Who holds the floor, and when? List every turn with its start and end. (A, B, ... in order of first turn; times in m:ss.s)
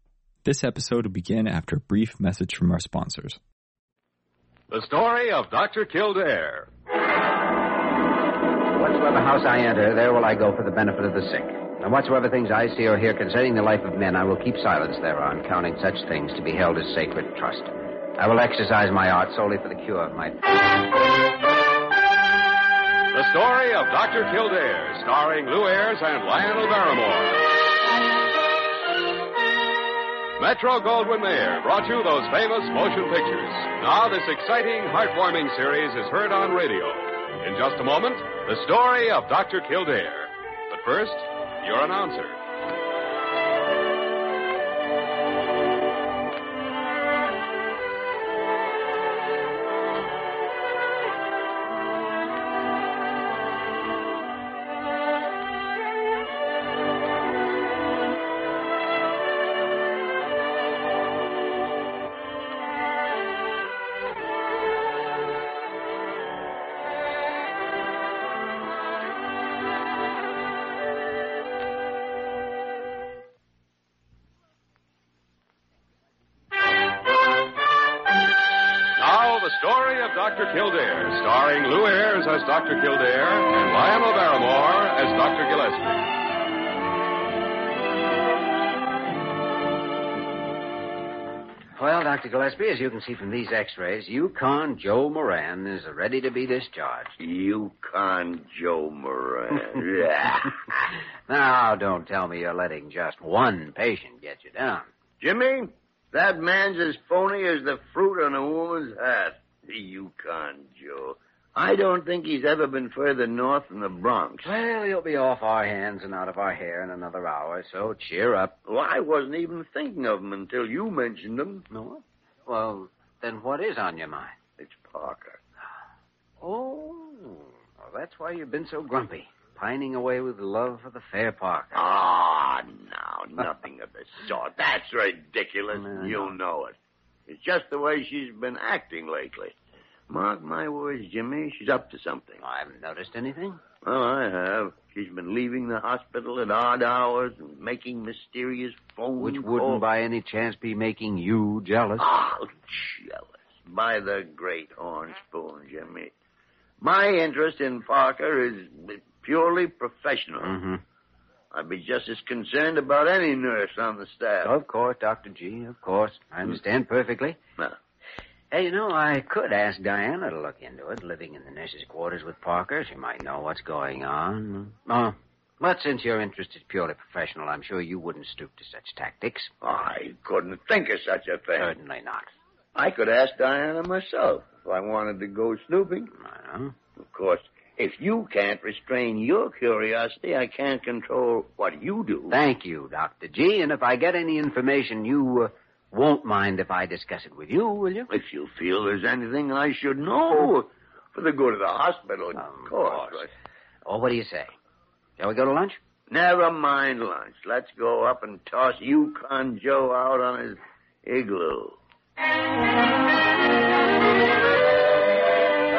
0:00.4-0:03.4 A
0:04.7-0:06.7 B
0:08.7-0:20.4 C
0:23.1-0:27.4 B
0:30.4-0:42.4 B
1:19.0-1:26.0 B
1:31.8-1:37.1 C
1:37.2-1:40.6 D
1:41.3-1:44.9 C
1:45.2-1:54.5 D
1:54.4-1:58.6 C
1:58.7-2:01.7 D
2:01.7-2:04.4 C
2:04.6-2:05.4 D
2:06.4-2:11.8 C
2:11.7-2:16.8 D
2:15.7-2:16.3 C
2:17.3-2:19.5 D
2:20.1-2:22.4 D
2:22.4-2:23.6 C
2:23.8-2:29.8 D
2:29.2-2:32.1 C
2:32.0-2:36.1 D
2:36.8-2:40.6 D
2:40.4-2:40.8 C
2:41.5-2:44.5 D
2:44.4-2:47.4 C
2:48.5-2:59.5 C
2:59.6-3:01.7 D
3:01.6-3:02.3 C
3:02.8-3:06.1 D
3:06.2-3:06.7 C
3:07.0-3:12.4 D
3:12.3-3:18.1 C
3:18.1-3:23.3 D
3:22.4-3:23.3 C
3:23.8-3:24.5 C
3:25.2-3:25.8 C
3:26.1-3:31.8 D